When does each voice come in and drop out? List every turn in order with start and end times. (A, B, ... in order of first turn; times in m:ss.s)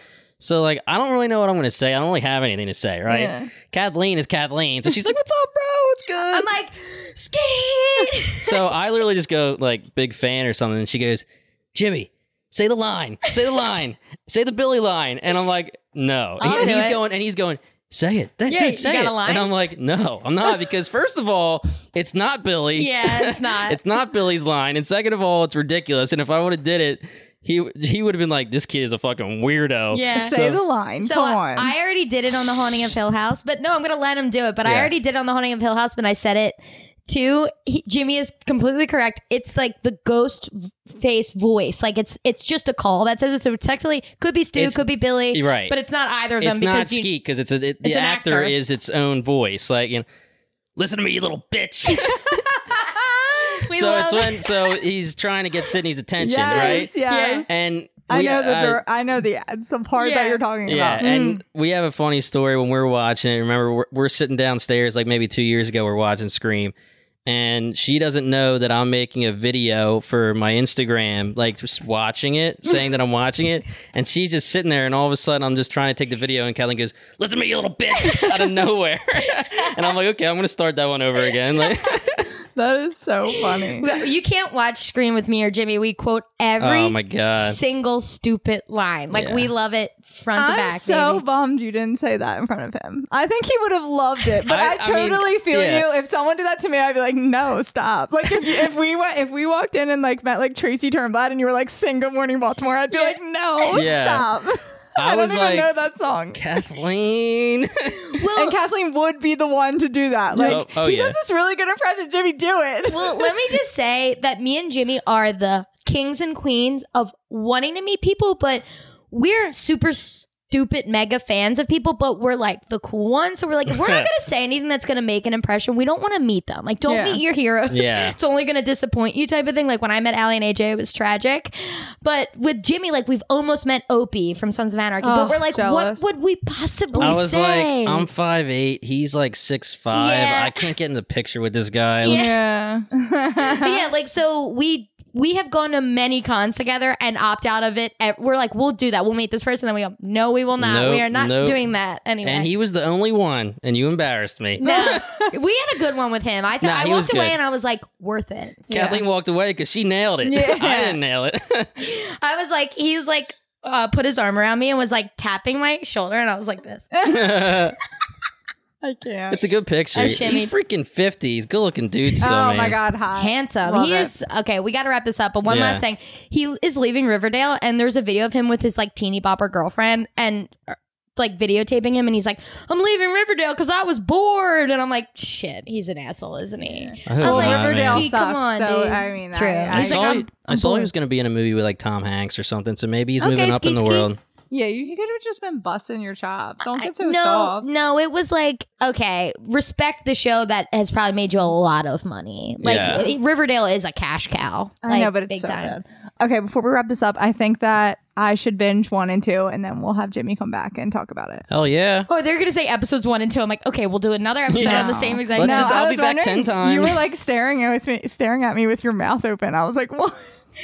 0:00.4-0:06.5 A
0:03.1-0:03.5 B
0:06.3-0:08.7 C
0:08.4-0:30.6 A
0:16.4-0:17.0 C
0:18.5-0:19.5 C
0:22.8-0:23.8 C
0:29.9-0:30.4 C
0:30.1-0:31.7 B
0:31.0-0:47.1 C
0:34.6-0:34.9 A
0:44.6-0:45.8 A
0:46.4-0:50.1 A
0:47.8-0:48.5 C
0:50.8-0:52.5 A
0:52.8-0:53.3 B
0:53.6-0:54.5 C
0:53.7-0:56.9 A
0:56.2-0:57.5 B
0:56.6-0:57.5 C
0:57.5-0:58.8 A
0:58.1-1:01.2 B
1:00.0-1:00.4 C
1:00.7-1:06.7 A
1:01.0-1:01.4 C
1:07.3-1:22.3 A
1:22.6-1:23.9 B
1:23.8-1:31.2 C
1:26.6-1:27.6 A
1:29.1-1:29.5 A
1:30.4-1:46.5 B
1:34.5-1:35.9 A
1:42.9-1:43.8 C
1:43.7-1:44.3 A
1:45.0-1:45.7 A
1:46.3-1:48.1 A
1:48.1-1:48.6 C
1:48.4-1:53.5 B
1:50.4-1:50.6 C
1:50.4-1:51.2 A
1:52.9-2:18.1 C
2:03.7-2:04.1 A
2:06.9-2:07.2 B
2:07.7-2:08.2 A
2:15.0-2:16.1 B
2:17.0-2:22.2 A
2:19.9-2:20.7 C
2:22.0-2:22.4 C
2:22.0-2:23.8 B
2:23.4-2:32.5 C
2:30.6-2:31.6 A
2:32.2-2:35.0 A
2:34.6-2:38.7 C
2:34.6-2:35.3 B
2:36.6-2:37.4 A
2:38.7-2:39.0 B
2:38.7-2:41.7 A
2:40.3-2:41.0 B
2:41.8-2:46.9 C
2:46.9-2:47.3 B
2:47.1-2:47.8 A
2:48.8-2:49.4 B
2:49.3-2:52.8 A
2:50.0-2:50.5 C
2:52.2-2:54.1 B
2:53.2-3:10.9 C
2:55.5-2:55.8 A
3:06.7-3:10.2 B
3:07.1-3:08.1 A
3:09.7-3:14.2 A
3:13.2-3:14.1 C
3:14.5-3:17.7 B
3:16.8-3:25.8 C
3:22.6-3:23.1 A
3:22.6-3:23.1 B
3:24.8-3:31.5 B
3:31.5-3:32.1 A
3:32.1-3:35.8 C
3:34.5-3:37.0 A
3:34.6-3:40.2 B